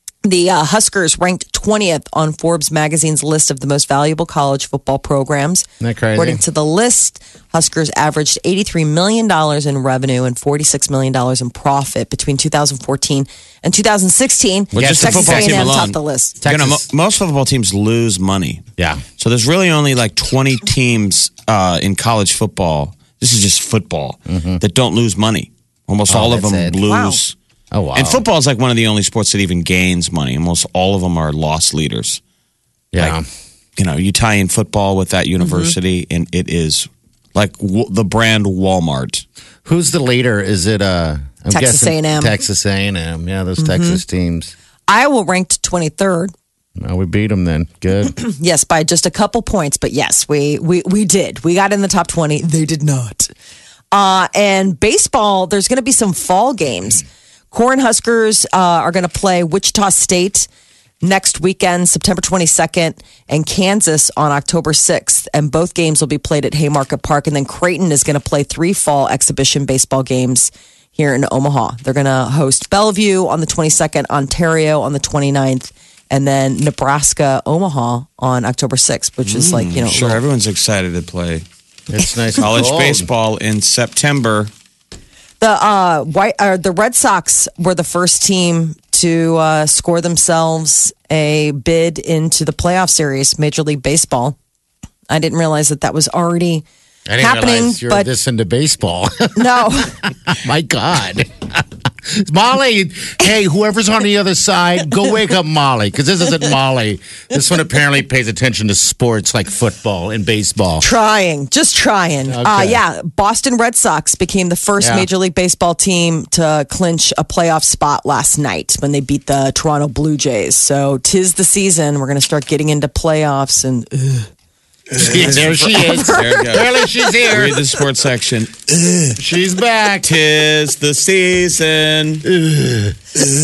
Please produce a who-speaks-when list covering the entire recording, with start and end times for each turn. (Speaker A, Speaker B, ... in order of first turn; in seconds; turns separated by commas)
Speaker A: 0.2-16.4, Speaker B: 5.8-6.4, Speaker B: 14.7-15.8, Speaker C: 14.8-18.6, Speaker B: 16.4-16.9, Speaker B: 18.8-19.0, Speaker C: 19.2-27.4, Speaker B: 24.3-24.6, Speaker B: 26.1-26.8, Speaker A: 26.9-27.2, Speaker B: 27.7-28.2, Speaker C: 27.9-32.2, Speaker B: 32.9-33.2, Speaker C: 33.8-39.2, Speaker A: 35.4-35.7, Speaker B: 39.6-44.5, Speaker A: 41.5-42.4, Speaker A: 43.6-44.0, Speaker A: 44.9-46.3, Speaker B: 46.8-48.2, Speaker A: 48.2-53.3, Speaker A: 53.9-60.5, Speaker A: 61.0-80.1, Speaker C: 79.3-81.5, Speaker B: 79.9-80.2, Speaker B: 81.9-83.1, Speaker C: 82.4-84.5, Speaker A: 85.4-94.4, Speaker A: 95.1-96.7, Speaker B: 97.1-99.6, Speaker A: 97.2-98.1, Speaker A: 99.3-100.0, Speaker B: 100.3-110.9, Speaker A: 110.8-124.3, Speaker B: 112.3-112.8, Speaker B: 114.8-115.1, Speaker B: 125.0-127.7, Speaker C: 125.0-129.1, Speaker A: 125.7-126.8, Speaker B: 129.2-130.1, Speaker C: 130.0-132.2, Speaker B: 132.3-133.0